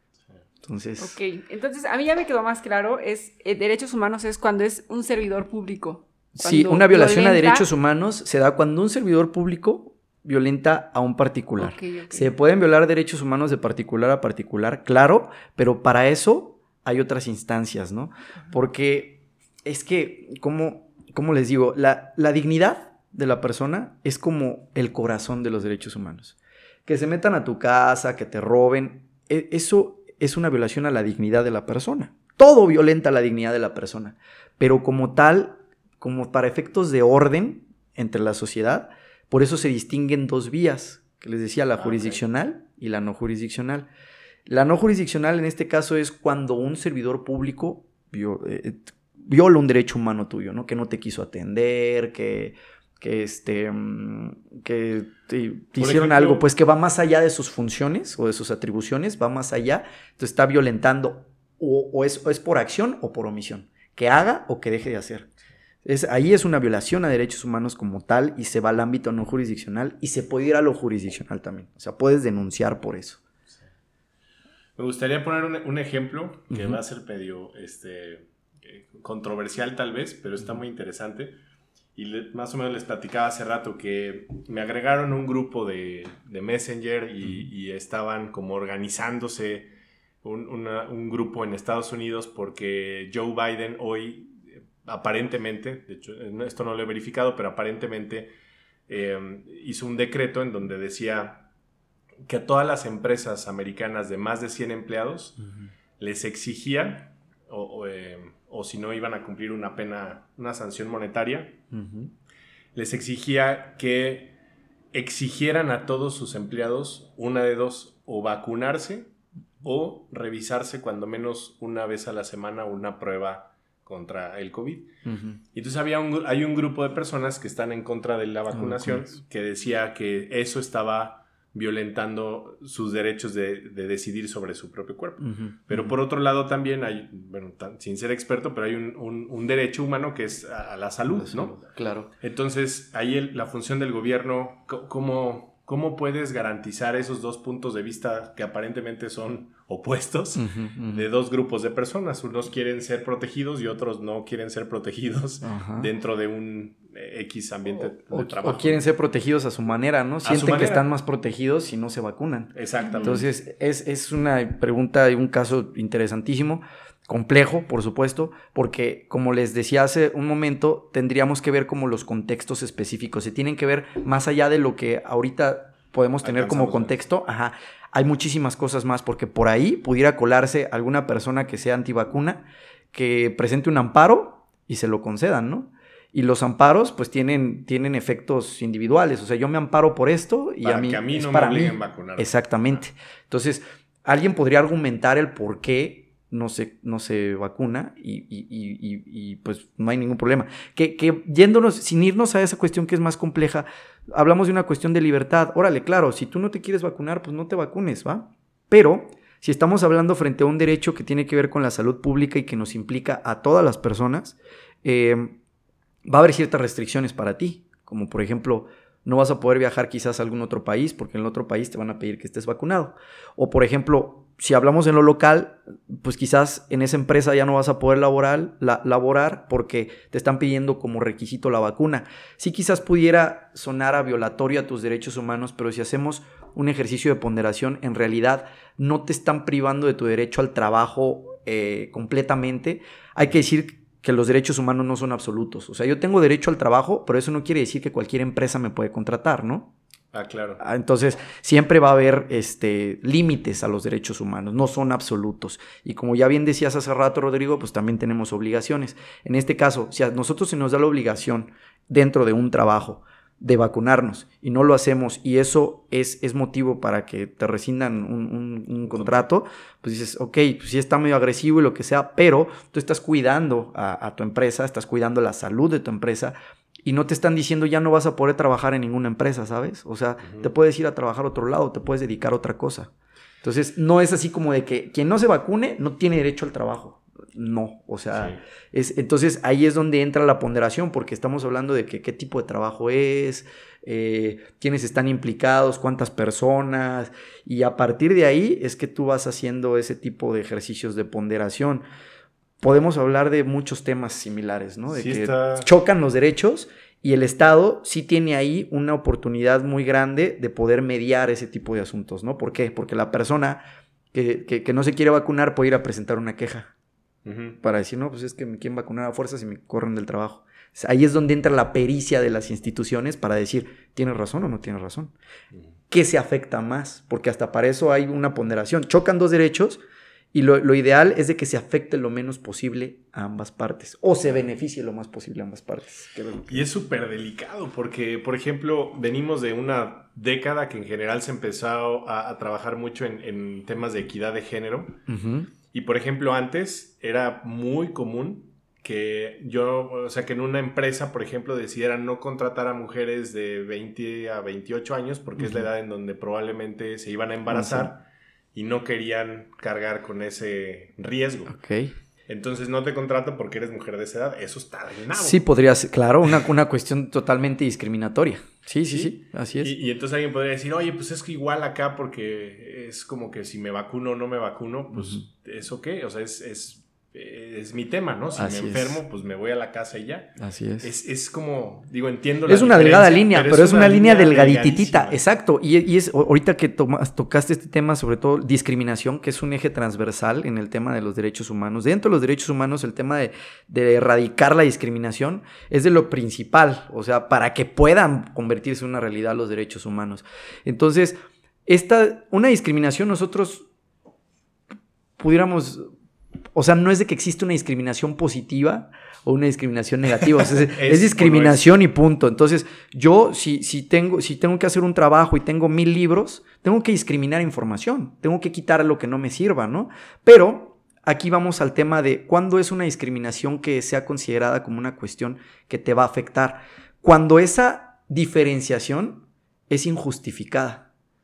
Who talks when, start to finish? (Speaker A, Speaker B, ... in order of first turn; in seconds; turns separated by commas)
Speaker A: 0.6-1.2, Speaker B: 1.0-7.7, Speaker A: 6.3-43.9, Speaker B: 11.6-12.3, Speaker C: 41.8-42.2, Speaker A: 44.5-65.3, Speaker C: 55.8-56.5, Speaker A: 65.8-73.2, Speaker C: 74.8-81.4, Speaker A: 76.5-76.8, Speaker C: 82.0-89.7, Speaker C: 90.2-98.3, Speaker C: 98.9-101.5, Speaker C: 102.2-105.4, Speaker C: 106.0-111.6, Speaker A: 111.7-112.1, Speaker C: 112.8-114.4, Speaker C: 114.9-119.1, Speaker C: 119.6-124.9, Speaker A: 125.1-125.4, Speaker C: 125.5-141.7, Speaker A: 128.5-129.0, Speaker A: 135.2-135.9, Speaker A: 141.1-142.1, Speaker C: 142.2-158.9, Speaker A: 150.4-151.1, Speaker A: 155.4-155.9, Speaker A: 158.1-215.4, Speaker C: 160.2-160.9, Speaker C: 162.6-163.3, Speaker C: 176.2-177.0, Speaker C: 190.6-192.8, Speaker A: 216.1-249.7, Speaker C: 250.1-250.6, Speaker A: 250.6-282.9, Speaker C: 268.9-269.3, Speaker C: 280.2-280.5, Speaker A: 283.4-301.8, Speaker C: 288.1-288.4, Speaker A: 302.6-316.7, Speaker C: 304.9-305.7, Speaker C: 317.2-317.6, Speaker A: 317.6-325.1, Speaker A: 325.9-329.8, Speaker A: 330.3-336.7, Speaker C: 336.5-345.0, Speaker A: 345.1-345.5, Speaker C: 345.7-358.0, Speaker A: 355.4-355.7, Speaker A: 357.5-357.9, Speaker C: 358.5-361.6, Speaker A: 361.5-361.9, Speaker C: 362.3-365.4, Speaker A: 365.1-369.7, Speaker C: 368.9-385.2, Speaker A: 374.9-375.2, Speaker A: 378.4-379.0, Speaker A: 380.4-380.9, Speaker A: 382.5-403.7, Speaker A: 405.2-405.9, Speaker A: 406.6-430.9, Speaker C: 410.4-411.8